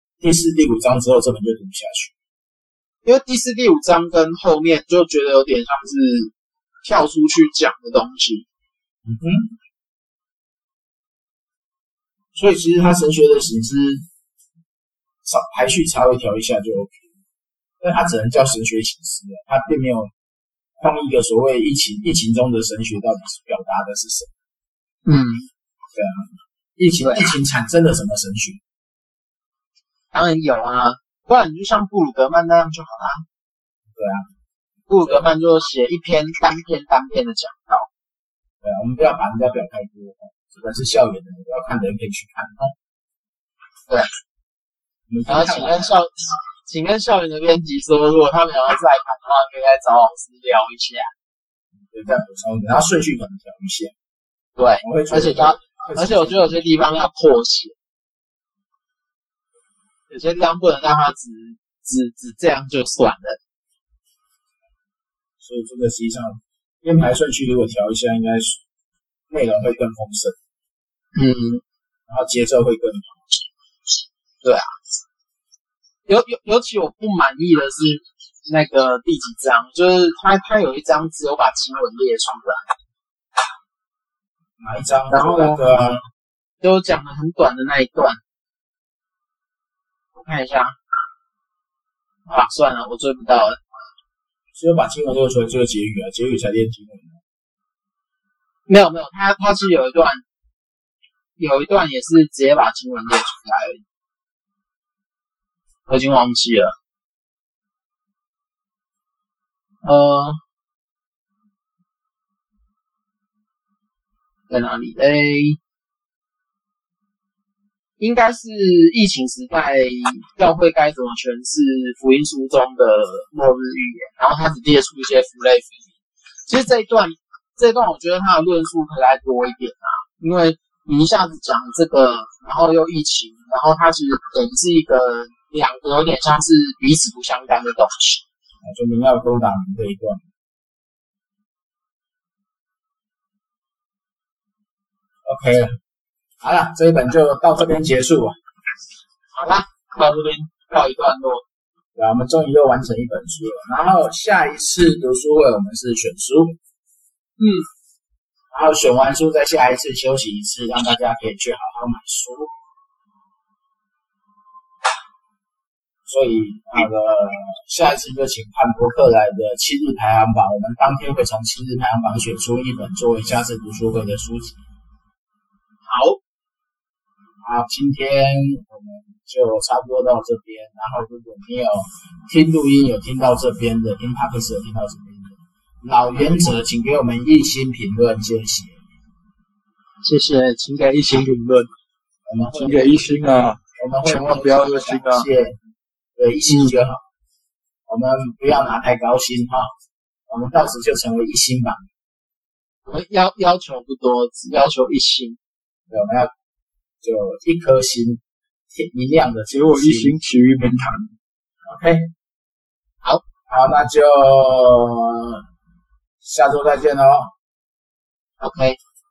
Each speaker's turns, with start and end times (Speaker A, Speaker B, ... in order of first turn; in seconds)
Speaker A: 0.2-2.1, 9.0-9.5, 12.3-14.1, 15.2-17.0, 17.8-20.1, 20.8-24.3, 25.9-28.6, 33.9-34.3, 38.6-42.7, 45.1-45.9, 51.9-53.9, 54.8-56.6, 65.4-68.6, 69.3-70.4, 72.1-73.1, 84.6-86.0, 94.5-97.2, 138.6-140.2, 145.2-145.8, 146.4-148.4, 151.9-156.6, 158.5-162.5, 166.1-174.6, 177.4-188.8, 192.3-192.9, 193.8-195.6, 196.2-197.0, 197.9-199.7, 200.3-201.8, 205.9-206.3, 207.0-208.2, 208.7-210.2, 211.6-212.1, 213.5-215.4, 216.2-217.3
Speaker B: 3.0-6.3, 6.8-8.4, 25.1-25.5, 27.0-27.3, 30.1-33.2, 34.9-37.9, 45.3-51.1, 54.6-57.7, 60.1-63.4, 71.1-71.6, 74.4-74.7, 76.1-82.6, 85.1-85.6, 86.6-88.2, 90.1-90.8, 92.3-93.6, 98.7-100.2, 101.4-103.8, 105.9-106.7, 109.8-110.4, 114.5-115.6, 118.0-125.7, 126.5-138.2, 149.3-151.4, 157.4-157.6, 175.9-176.2, 190.0-191.7, 202.8-205.4, 218.4-218.8
Speaker C: 192.5-195.3, 209.5-211.1